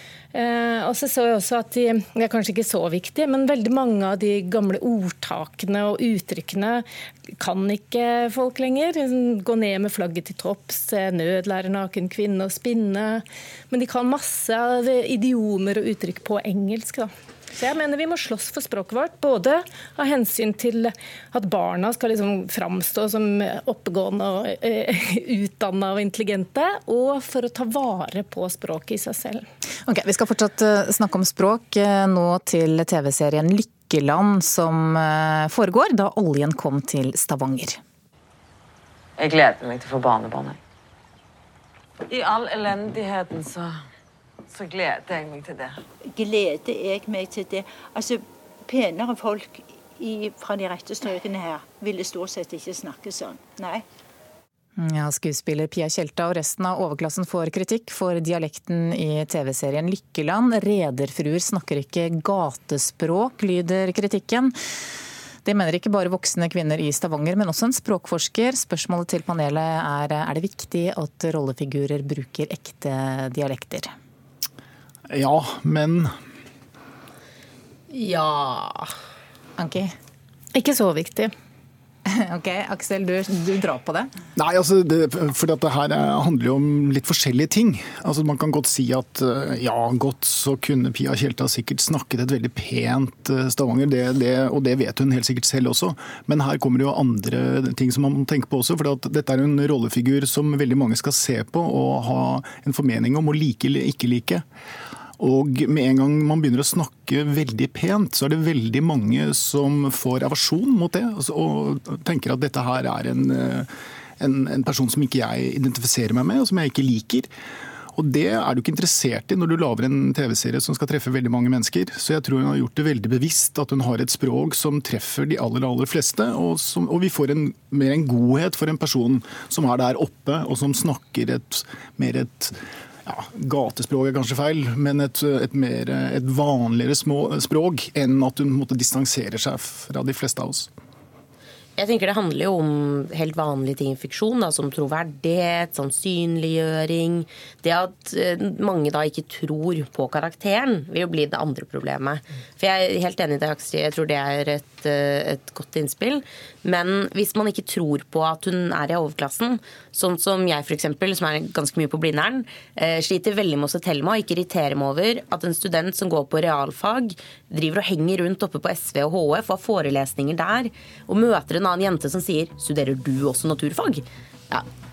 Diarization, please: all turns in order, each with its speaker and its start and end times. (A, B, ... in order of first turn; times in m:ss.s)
0:00.3-0:06.8 A
0:07.4-0:29.4 A
0:29.8-0:37.8 B
0:39.2-0:40.6 C
0:42.1-0:43.8 C
0:44.5-0:45.8 C
0:46.2-0:53.8 D
0:54.8-1:04.5 B
1:05.4-1:13.9 B
1:15.1-1:16.1 E
1:17.9-1:18.9 F
1:19.6-1:19.9 B
1:20.5-1:21.3 A
1:22.1-1:24.1 B
1:24.4-1:44.4 E
1:45.2-1:53.7 E
1:54.2-1:57.3 E
1:57.9-2:12.5 E
2:13.0-2:20.7 E
2:21.8-2:54.6 F